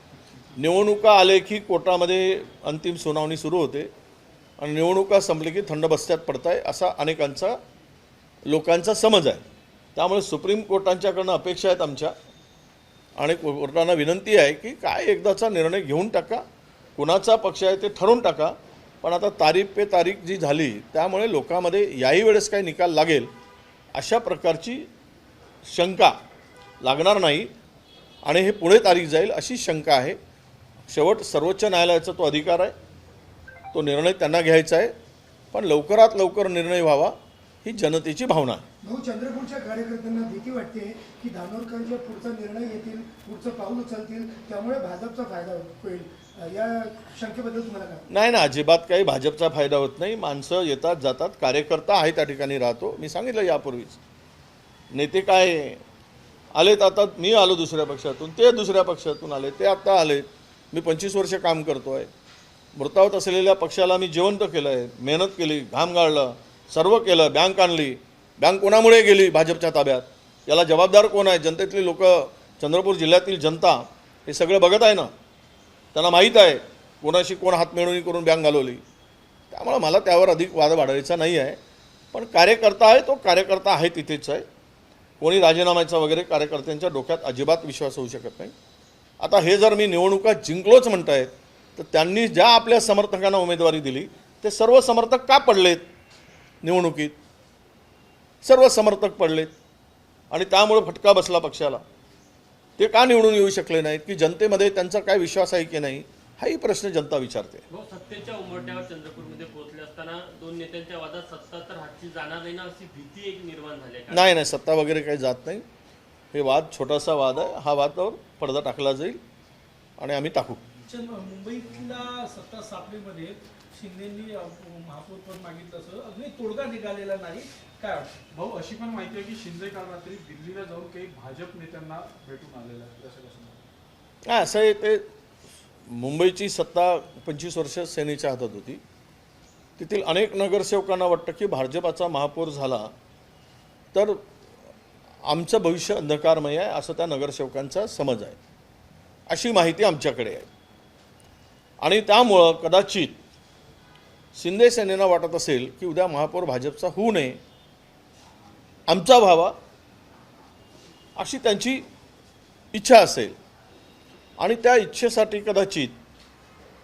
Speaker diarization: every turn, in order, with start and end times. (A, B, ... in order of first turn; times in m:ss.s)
0:00.6-0:03.9 A
0:04.6-0:07.6 A
0:08.5-0:09.4 A
0:10.0-0:12.1 A
0:13.2-0:16.4 A
0:17.0-0:23.3 A
0:23.9-0:24.9 A
0:25.6-0:26.1 A
0:26.8-0:27.5 A
0:28.2-0:30.2 A
0:30.9-0:32.7 A
0:33.7-0:34.9 A
0:35.5-0:38.6 A
0:38.8-0:48.0 B
0:48.1-0:54.0 A
0:54.9-0:55.8 A
0:56.5-1:02.1 A
1:02.7-1:15.1 A
1:15.9-1:18.8 A
1:19.5-1:21.6 A
1:22.1-1:24.4 A
1:25.2-1:28.5 A
1:29.2-1:35.8 A
1:36.6-1:37.1 A
1:38.4-1:39.5 A
1:40.3-1:41.8 A
1:42.8-1:47.6 A
1:47.7-1:54.2 C
1:54.1-1:55.6 A
1:56.3-1:59.2 A
2:00.0-2:00.6 A
2:00.9-2:08.2 D
2:08.3-2:13.6 E
2:14.2-2:15.0 A
2:15.9-2:18.8 A
2:19.8-2:22.9 A
2:23.9-2:24.2 A
2:25.2-2:28.4 A
2:29.3-2:30.5 A
2:31.8-2:33.2 A
2:34.3-2:37.4 A
2:38.9-2:39.5 A
2:41.2-2:41.8 A
2:42.7-2:43.4 A
2:44.4-2:45.9 A